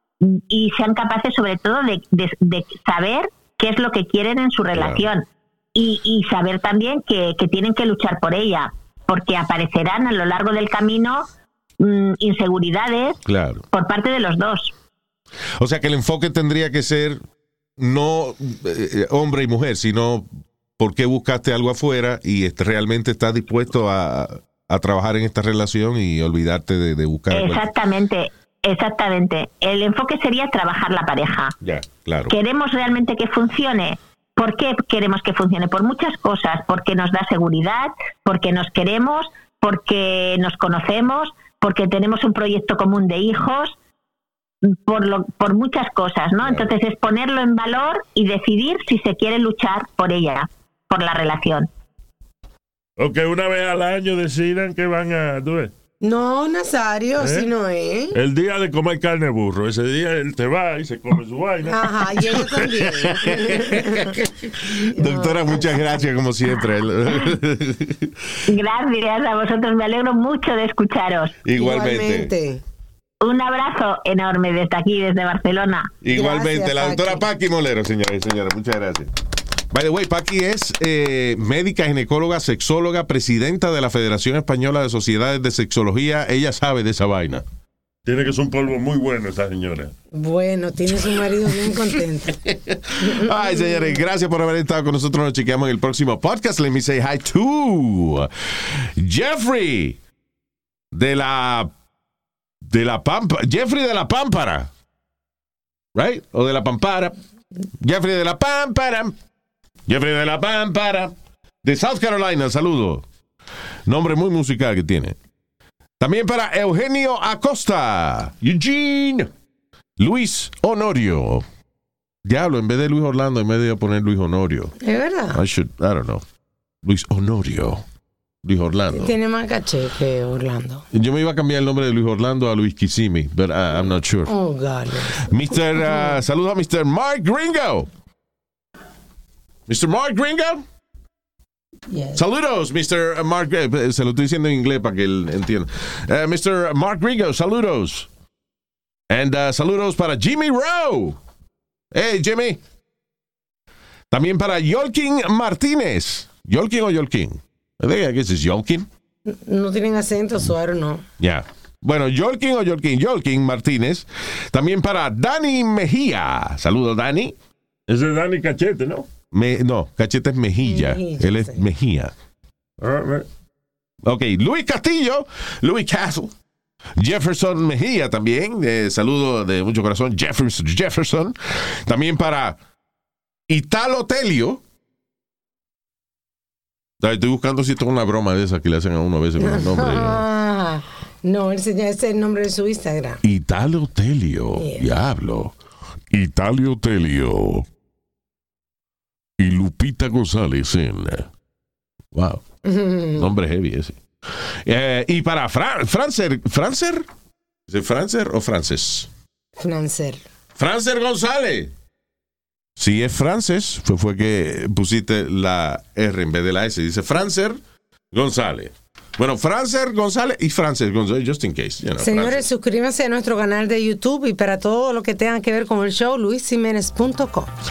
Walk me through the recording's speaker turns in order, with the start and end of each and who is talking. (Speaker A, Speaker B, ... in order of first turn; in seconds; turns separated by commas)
Speaker A: 0.2-11.3, Speaker B: 4.7-5.0, Speaker A: 11.8-14.7, Speaker B: 13.3-13.6, Speaker B: 15.6-17.2, Speaker B: 17.8-27.8, Speaker A: 27.3-31.6, Speaker B: 31.6-32.3, Speaker A: 32.3-43.7, Speaker A: 44.6-51.7, Speaker B: 46.4-46.7, Speaker C: 53.0-55.7, Speaker D: 56.0-58.1, Speaker C: 57.2-57.5, Speaker C: 58.1-63.1, Speaker D: 61.7-64.2, Speaker B: 63.2-68.3, Speaker D: 64.9-65.8, Speaker A: 68.5-71.4, Speaker B: 71.4-72.3, Speaker D: 71.6-72.6, Speaker A: 73.2-76.0, Speaker B: 76.0-79.1, Speaker D: 76.1-77.3, Speaker B: 79.7-87.5, Speaker C: 88.0-89.9, Speaker D: 90.1-92.4, Speaker B: 92.5-100.0, Speaker D: 93.0-94.0, Speaker B: 100.9-101.7, Speaker B: 102.6-104.7, Speaker B: 106.0-107.2, Speaker B: 107.8-109.2, Speaker B: 109.9-113.0, Speaker B: 113.9-115.2, Speaker B: 116.0-119.3, Speaker B: 120.0-121.5, Speaker B: 122.2-124.7, Speaker D: 124.8-125.4, Speaker B: 125.3-126.2, Speaker B: 126.8-127.8, Speaker B: 128.4-129.2, Speaker D: 128.9-130.8, Speaker B: 130.9-134.3, Speaker D: 134.3-136.1, Speaker B: 135.2-137.9, Speaker B: 139.7-140.6, Speaker D: 141.9-142.2, Speaker B: 142.1-148.1, Speaker B: 149.1-151.2, Speaker B: 151.9-152.6, Speaker B: 154.1-158.9, Speaker D: 159.3-161.1, Speaker B: 161.2-167.4, Speaker C: 167.9-169.1, Speaker B: 169.3-172.1, Speaker D: 170.6-171.7, Speaker C: 172.8-173.3, Speaker B: 174.0-176.3, Speaker B: 177.0-182.6, Speaker B: 183.5-184.6, Speaker B: 187.0-190.2, Speaker D: 189.4-193.2, Speaker B: 193.2-195.6, Speaker D: 194.6-194.9, Speaker B: 196.1-197.7, Speaker B: 199.4-201.3, Speaker B: 202.1-202.4, Speaker D: 202.7-203.3, Speaker B: 203.2-207.1, Speaker B: 207.7-209.1, Speaker D: 209.6-210.2, Speaker B: 210.6-211.7, Speaker B: 212.8-217.6, Speaker B: 218.1-222.4, Speaker D: 222.0-227.5